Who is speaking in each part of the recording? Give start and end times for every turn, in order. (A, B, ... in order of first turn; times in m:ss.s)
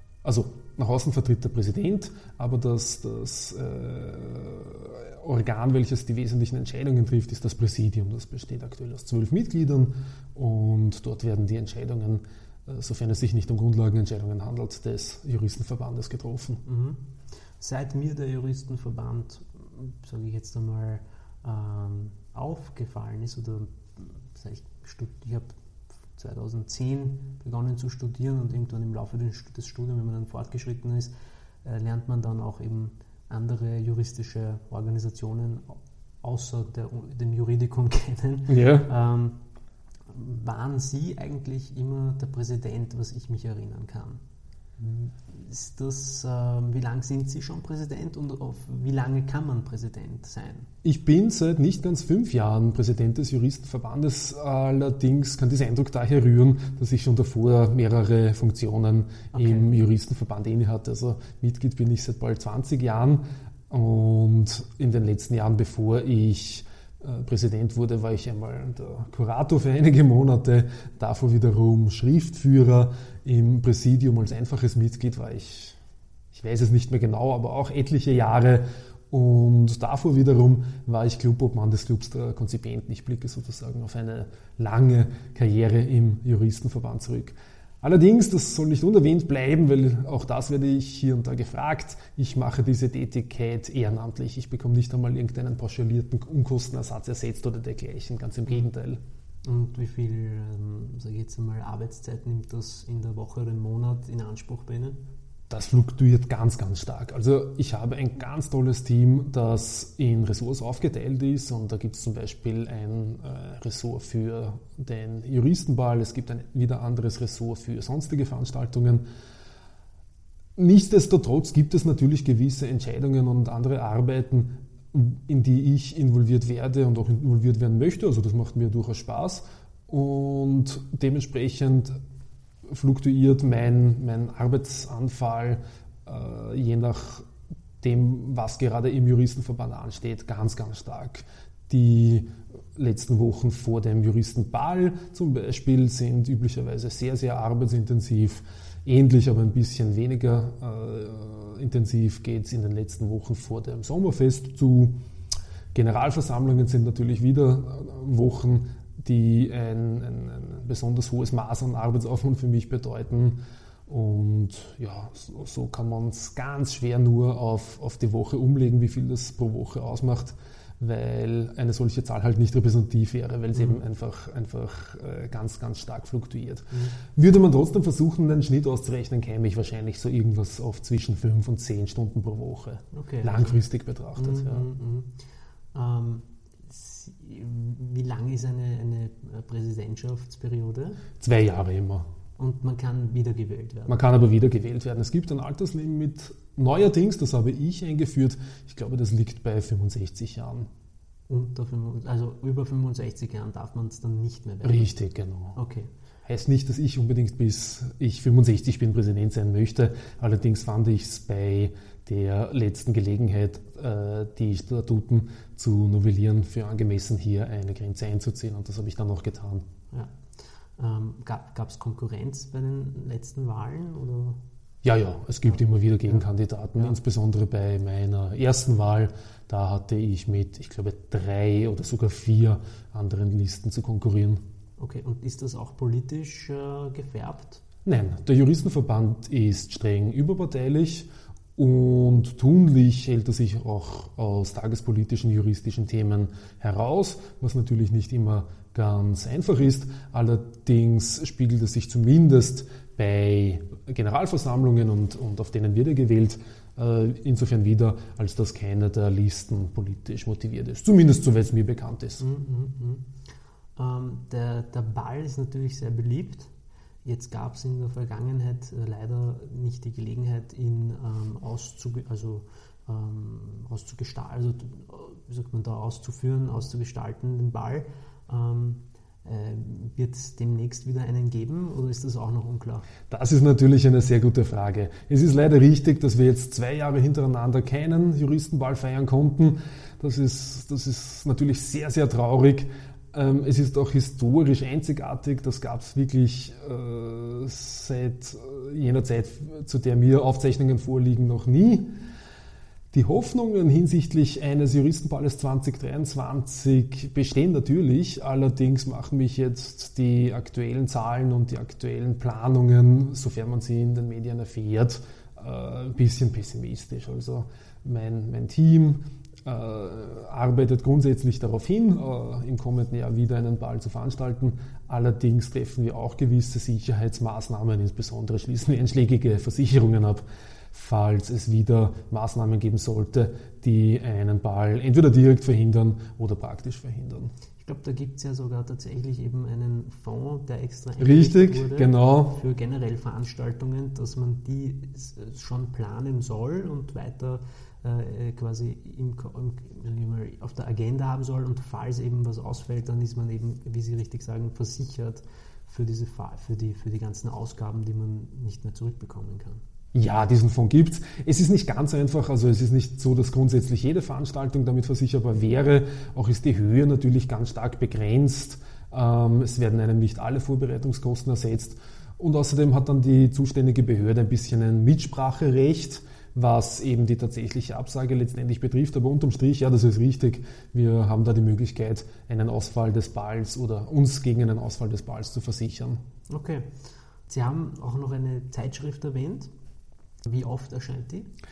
0:00.2-0:16.6 A
0:16.6-0:17.0 B
0:17.6-0:25.5 B
0:26.1-0:31.1 B
0:31.6-0:39.4 B
0:38.5-0:38.9 A
0:40.1-0:44.2 B
0:44.8-0:50.7 B
0:50.8-1:15.8 A
0:59.3-0:59.7 B
1:16.3-1:39.0 A
1:39.4-1:45.0 B
1:45.5-1:59.0 A
2:00.6-2:12.0 A
2:12.7-2:17.3 A
2:17.8-2:35.0 A
2:35.7-3:04.7 A
3:02.9-3:03.6 B
3:04.2-3:05.2 B
3:05.7-3:11.0 B
3:11.2-3:12.1 A
3:12.4-3:14.0 B
3:13.9-3:20.7 A
3:21.3-3:24.9 B
3:24.6-3:25.6 A
3:25.5-3:25.9 B
3:26.2-3:39.6 A
3:39.9-3:40.2 B
3:40.8-3:44.4 B
3:44.8-3:54.4 A
3:45.5-3:46.2 B
3:54.8-3:57.6 B
3:57.8-4:22.2 A
4:22.2-4:23.1 B
4:23.8-4:26.5 B
4:27.0-4:42.9 B
4:43.1-5:01.9 A
5:02.9-5:37.3 A
5:37.6-5:59.6 B
5:41.0-5:42.4 A
5:59.9-6:26.0 A
6:26.3-6:26.7 B
6:27.3-6:29.5 B
6:30.2-6:31.3 B